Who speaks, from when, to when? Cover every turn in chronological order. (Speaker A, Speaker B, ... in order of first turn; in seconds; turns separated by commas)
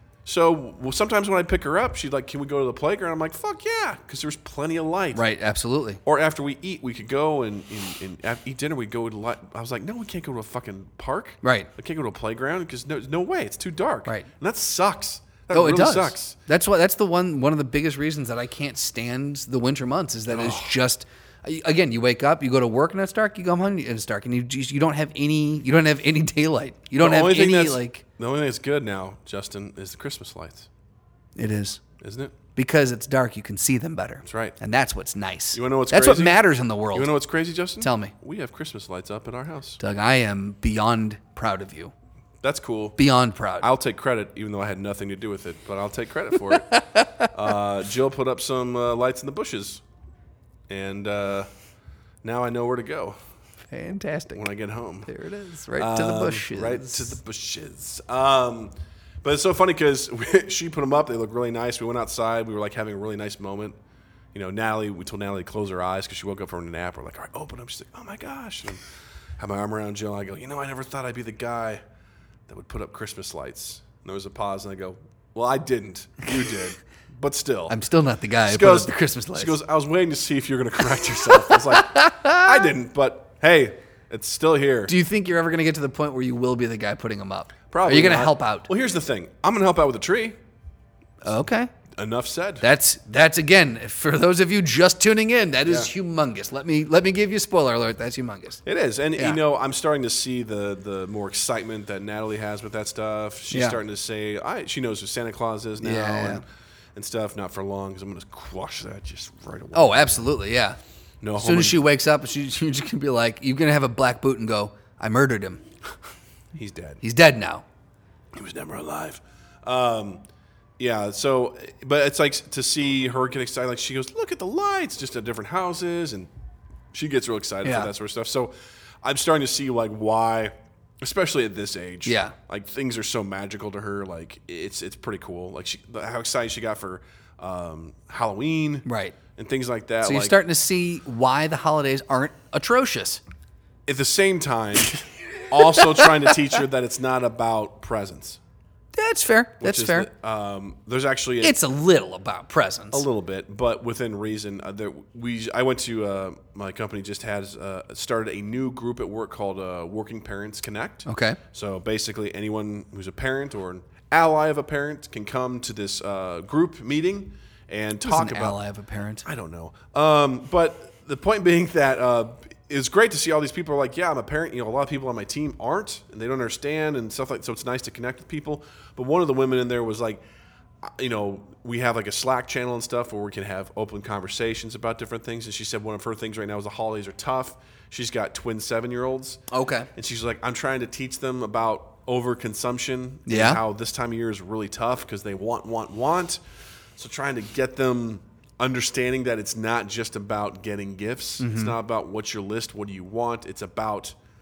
Speaker A: 0.2-5.2, Speaker B: 5.1-6.0, Speaker A: 6.0-16.4, Speaker B: 11.4-11.7, Speaker B: 15.5-28.0, Speaker A: 20.3-20.7, Speaker A: 27.0-30.7, Speaker B: 31.4-31.8, Speaker A: 32.0-32.4, Speaker B: 32.6-37.1, Speaker A: 34.2-34.6, Speaker A: 35.5-36.4, Speaker A: 36.9-39.8, Speaker B: 37.8-38.1, Speaker B: 39.8-41.9, Speaker A: 42.4-43.0, Speaker B: 43.0-43.7, Speaker A: 43.6-49.8, Speaker B: 46.5-47.3, Speaker A: 50.7-51.5, Speaker A: 52.2-53.2, Speaker B: 53.7-54.5, Speaker A: 54.3-55.1, Speaker B: 55.1-57.2, Speaker A: 55.8-63.8, Speaker A: 64.3-68.8, Speaker A: 69.4-71.8, Speaker A: 72.5-77.8, Speaker B: 77.7-79.5, Speaker A: 78.4-84.9, Speaker B: 81.3-82.7, Speaker B: 84.9-88.7, Speaker A: 87.7-90.4, Speaker B: 91.2-91.7, Speaker A: 91.9-92.7, Speaker B: 92.6-98.6, Speaker A: 98.7-106.4, Speaker B: 103.5-103.8, Speaker B: 105.8-106.4, Speaker A: 107.0-110.3, Speaker B: 109.7-110.8, Speaker A: 111.2-111.8, Speaker B: 111.4-115.6, Speaker A: 116.5-117.0, Speaker B: 117.0-117.6, Speaker A: 118.3-120.2, Speaker A: 120.8-126.3, Speaker A: 126.9-128.5, Speaker B: 127.6-127.9, Speaker A: 129.0-138.8, Speaker B: 132.1-132.3, Speaker B: 138.8-139.2, Speaker A: 139.4-140.4, Speaker B: 140.0-143.2, Speaker A: 143.9-148.4, Speaker B: 145.5-146.3, Speaker B: 148.9-150.1, Speaker A: 149.6-151.6, Speaker B: 151.4-153.1, Speaker A: 152.9-168.6, Speaker B: 161.1-161.4, Speaker B: 168.0-169.3, Speaker A: 169.2-180.2, Speaker A: 180.8-189.4, Speaker B: 189.5-189.9, Speaker A: 189.9-196.4, Speaker B: 193.3-193.6, Speaker A: 197.0-204.2, Speaker B: 201.4-201.8